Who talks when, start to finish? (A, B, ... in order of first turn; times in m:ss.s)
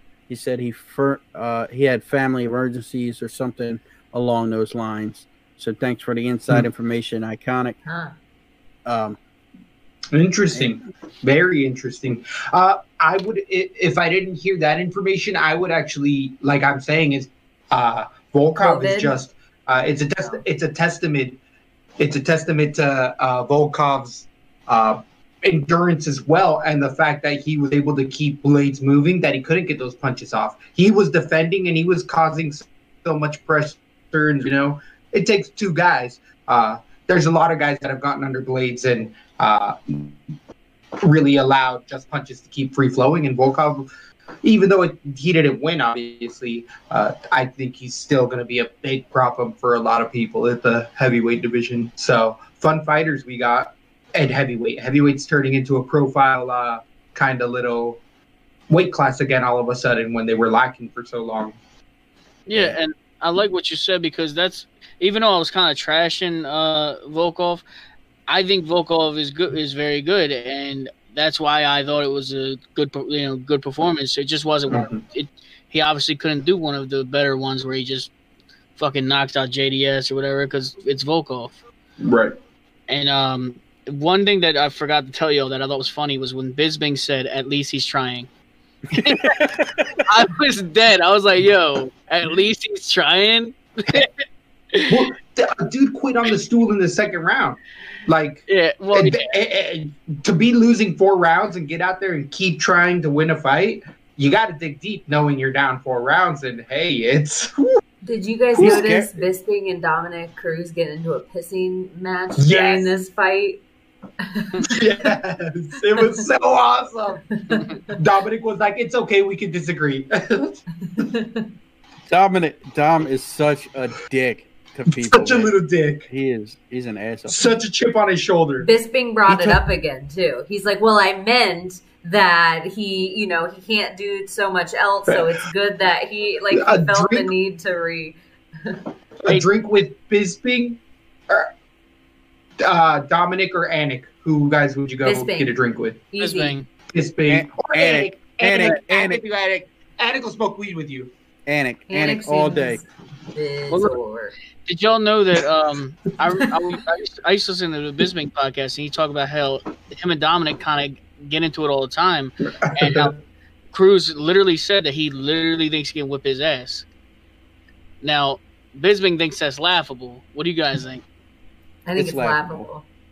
0:00.3-0:07.8 A
0:07.8-0:08.1 B
0:08.8-0:09.2 A
0:10.1-0:21.4 C
0:10.5-0:10.8 A
0:18.6-0:19.2 B
0:22.0-0:40.2 C
0:41.0-0:43.9 C
0:44.4-0:58.0 C
0:58.7-1:01.6 C
1:02.5-1:07.6 D
1:08.3-1:18.1 D
1:14.7-1:15.0 C
1:18.8-1:21.5 D
1:22.0-1:22.3 C
1:22.9-1:28.3 D
1:28.9-1:30.0 A
1:29.0-1:29.5 D
1:30.0-1:35.1 D
1:34.9-1:47.8 C
1:38.5-1:39.3 D
1:48.0-1:53.6 B
1:48.6-1:49.2 A
1:52.4-1:52.9 C
1:54.2-1:54.8 B
1:54.6-1:57.2 C
1:57.4-1:57.9 B
1:57.9-2:00.6 C
2:00.9-2:01.5 B
2:02.1-2:05.5 A
2:05.0-2:06.1 C
2:06.1-2:07.5 A
2:07.3-2:08.7 C
2:08.6-2:18.8 B
2:09.3-2:09.6 C
2:16.5-2:17.3 C
2:19.2-2:21.5 C
2:22.6-2:26.0 C
2:25.0-2:25.5 B
2:26.1-2:26.6 B
2:26.2-2:26.6 D
2:26.9-2:31.1 C
2:27.2-2:29.2 A
2:31.5-2:32.8 A
2:31.9-2:34.3 B
2:33.7-2:34.0 D
2:34.6-2:43.1 D
2:42.6-2:43.2 C
2:43.7-2:46.8 D
2:48.0-2:51.0 D
2:51.8-2:52.9 B
2:52.0-2:52.7 A